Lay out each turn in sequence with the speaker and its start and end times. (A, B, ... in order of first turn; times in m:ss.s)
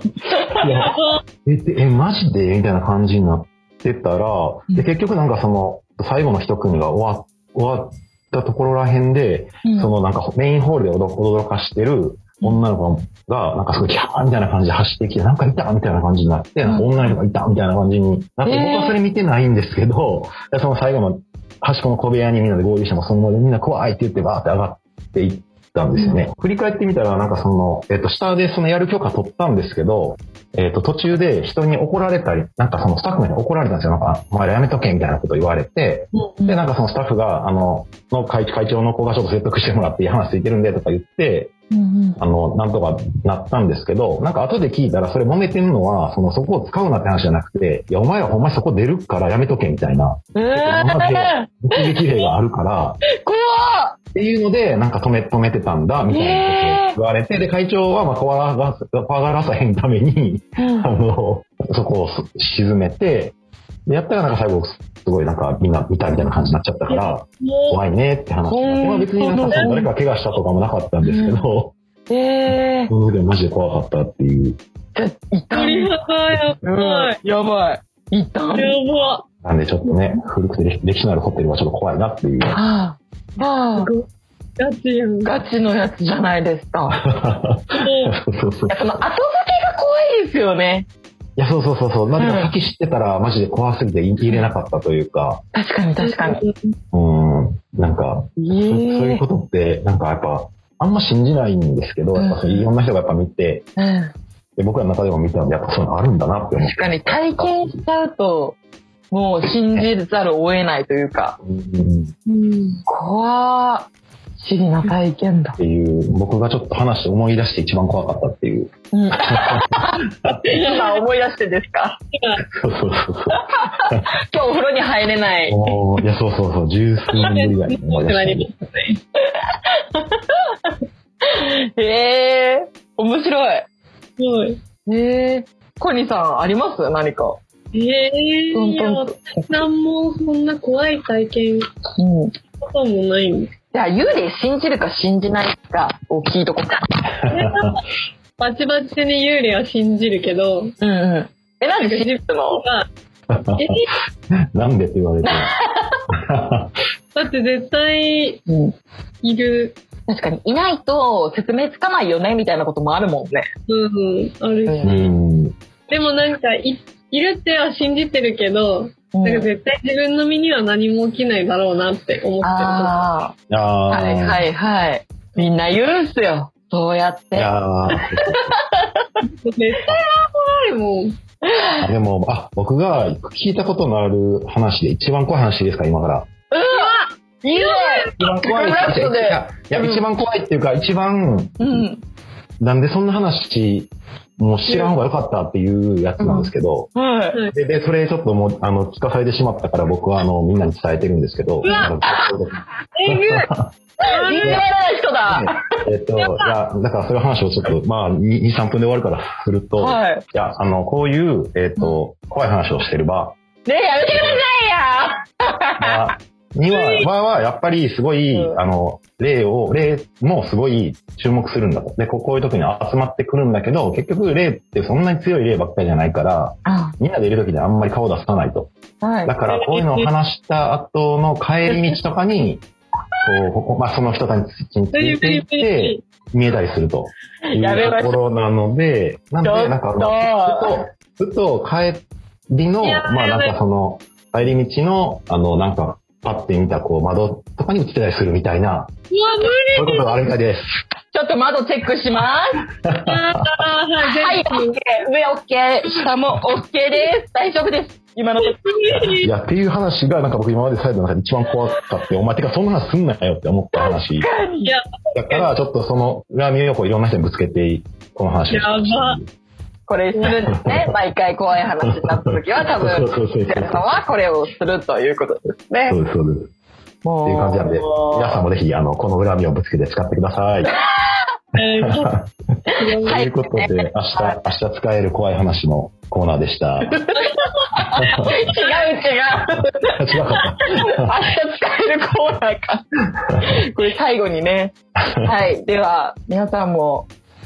0:00.3-0:00.6 A
0:00.6-0:41.5 B
0:01.0-0:01.2 C
0:09.6-0:09.9 A
0:16.6-0:17.2 A
0:18.4-0:19.0 A
0:36.2-0:36.6 A
0:41.7-0:42.2 A
0:42.2-0:53.0 B
0:50.4-0:52.3 A
0:53.1-0:54.0 A
0:54.1-1:03.4 B
0:56.1-0:57.0 A
1:00.6-1:00.9 A
1:03.9-1:11.8 B
1:06.9-1:07.8 C
1:08.5-1:09.8 A
1:09.4-1:09.8 C
1:11.0-1:11.5 A
1:12.1-1:12.9 A
1:12.5-1:14.6 B
1:15.0-1:15.9 A
1:15.5-1:17.2 C
1:16.6-1:18.8 A
1:18.6-1:19.2 C
1:19.4-1:22.6 B
1:22.5-1:23.9 A
1:23.8-1:24.1 C
1:24.6-1:25.3 C
1:25.2-1:27.0 A
1:27.0-1:29.0 B
1:27.8-1:28.2 C
1:28.7-1:30.9 A
1:31.4-1:35.4 B
1:32.2-1:32.5 A
1:35.5-1:36.4 A
1:36.0-1:36.8 C
1:36.9-1:43.7 B
1:38.4-1:39.2 A
1:42.2-1:42.7 A
1:43.8-1:44.1 A
1:44.6-1:47.8 B
1:46.6-1:48.6 A
1:49.1-1:51.4 A
1:51.4-1:52.1 B
1:52.3-1:52.8 C
1:52.9-1:55.6 A
1:55.6-1:58.7 B
1:58.9-2:02.0 A
1:59.2-2:00.4 B
2:00.5-2:01.0 C
2:02.1-2:02.4 C
2:02.6-2:04.0 B
2:03.5-2:05.6 A
2:05.5-2:08.5 B
2:07.2-2:09.0 C
2:09.2-2:10.7 A
2:11.3-2:13.7 A
2:14.2-2:14.6 C
2:14.9-2:17.4 A
2:17.7-2:21.7 C
2:18.5-2:19.5 A
2:22.0-2:22.3 A
2:22.7-2:23.5 C
2:23.7-2:27.0 A
2:27.3-2:27.8 C
2:28.4-2:30.7 C
2:30.8-2:32.6 A
2:31.8-2:32.9 C
2:33.3-2:33.8 B
2:33.6-2:33.9 C
2:34.5-2:35.5 B
2:35.2-2:36.0 A
2:36.1-2:36.7 B
2:37.2-2:38.4 C
2:38.5-2:38.8 A
2:39.2-2:39.8 C
2:40.1-2:43.5 A
2:43.7-2:45.0 C
2:44.7-2:45.0 A
2:44.8-2:45.6 B
2:45.9-2:53.0 C
2:49.1-2:49.5 A
2:52.4-2:53.4 A
2:53.5-2:54.4 B
2:53.9-2:57.5 A
2:57.3-2:58.4 B
2:58.3-2:59.1 A
2:59.2-3:01.2 C
3:01.4-3:01.9 A
3:01.8-3:06.3 B
3:06.5-3:10.0 A
3:06.7-3:08.1 C
3:08.2-3:11.9 B
3:11.6-3:12.0 A
3:12.6-3:16.9 B
3:16.2-3:17.4 A
3:17.5-3:23.7 B
3:21.6-3:22.3 A
3:23.0-3:23.5 C
3:24.0-3:24.7 C
3:24.0-3:25.5 A
3:25.3-3:33.4 B
3:29.8-3:30.2 A
3:33.7-3:36.0 A
3:34.0-3:34.4 B
3:35.8-3:48.7 B
3:38.3-3:38.6 A
3:46.6-3:47.0 A
3:49.0-3:49.4 A
3:49.2-3:52.6 B
3:49.5-3:50.1 C
3:53.2-4:08.9 B
3:54.9-3:56.0 C
3:57.5-3:58.2 A
3:59.4-4:00.7 A
4:02.8-4:03.6 C
4:09.1-4:10.2 C
4:09.7-4:10.7 B
4:11.1-4:12.6 A
4:12.8-4:13.4 B
4:13.0-4:14.8 C
4:14.0-4:18.6 A
4:18.4-4:19.3 C
4:18.9-4:24.3 B
4:23.7-4:24.7 A
4:24.6-4:25.5 C
4:25.2-4:29.3 B
4:28.5-4:29.2 C
4:29.9-4:36.0 A
4:30.2-4:30.4 C
4:30.2-4:30.9 B
4:31.8-4:32.1 B
4:32.7-4:34.0 B
4:35.9-4:36.5 B
4:37.0-4:38.3 A
4:37.2-4:40.7 B
4:40.6-4:41.3 A
4:41.6-4:42.1 C
4:42.0-4:42.3 B
4:42.8-4:43.2 C
4:43.0-4:44.4 A
4:43.0-4:47.0 B
4:46.9-4:50.0 A
4:48.0-4:48.3 B
4:50.0-4:51.1 B
4:50.6-4:52.8 A
4:53.4-4:57.1 A